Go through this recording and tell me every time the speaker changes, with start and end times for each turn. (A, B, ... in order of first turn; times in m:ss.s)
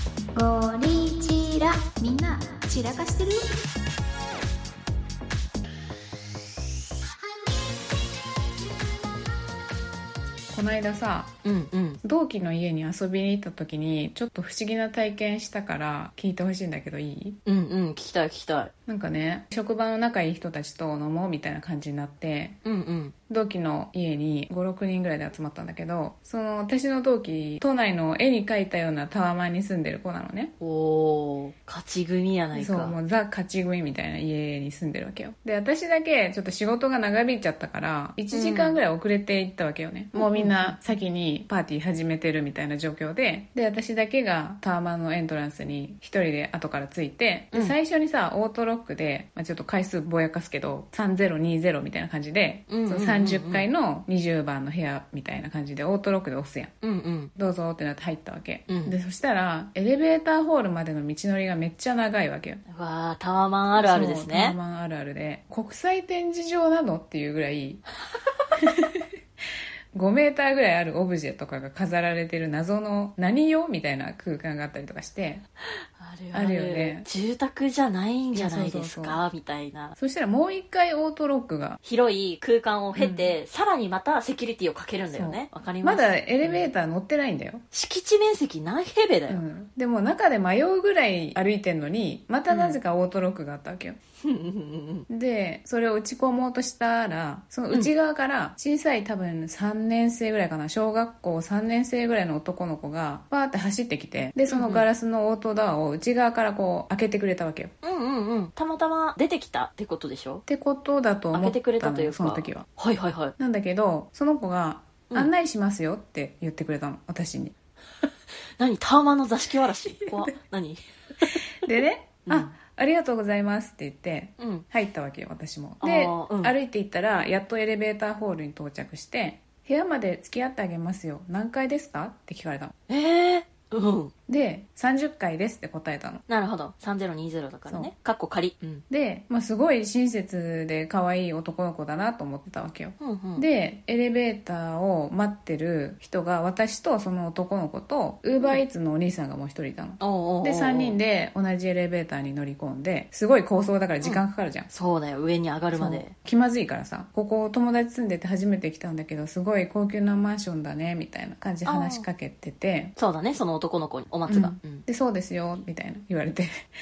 0:00.4-0:03.5 A
0:10.5-0:11.3 B
0:11.4-0:12.0 C
0:12.0-0:17.4 B
0:17.5-0:18.7 C
0:18.9-0:22.6 B
0:22.6-0:23.1 C
0:23.3-0:30.5 B
0:30.6-0:33.0 C
0:32.6-0:56.7 B
0:38.3-0:38.8 C
0:40.2-0:40.8 C
0:52.7-0:53.7 C
0:56.8-0:57.3 C
0:57.4-1:02.6 B
0:58.7-0:59.0 C
1:02.7-1:04.6 C
1:03.8-1:07.8 B
1:08.6-1:09.1 B
1:09.9-1:15.4 B
1:16.0-1:20.0 C
1:16.3-1:17.1 B
1:18.4-1:19.2 B
1:20.0-1:21.8 B
1:21.8-1:26.7 C
1:23.0-1:23.3 B
1:25.1-1:27.6 B
1:27.7-1:29.4 C
1:29.3-1:34.0 B
1:32.5-1:32.8 C
1:34.2-1:35.1 C
1:35.1-1:47.7 B
1:44.5-1:44.9 C
1:47.8-1:50.4 C
1:50.5-1:52.7 B
1:51.3-1:53.3 C
1:53.4-1:57.5 B
1:58.6-2:01.4 C
2:01.6-2:12.7 B
2:02.3-2:02.5 C
2:04.4-2:04.7 C
2:05.8-2:06.6 C
2:12.9-2:14.1 C
2:14.3-2:16.2 B
2:16.3-2:18.8 C
2:18.9-2:34.7 B
2:23.0-2:23.5 C
2:30.0-2:31.0 C
2:34.0-2:36.1 C
2:35.7-2:43.0 B
2:41.7-2:42.1 C
2:43.0-2:44.8 C
2:44.3-2:46.7 B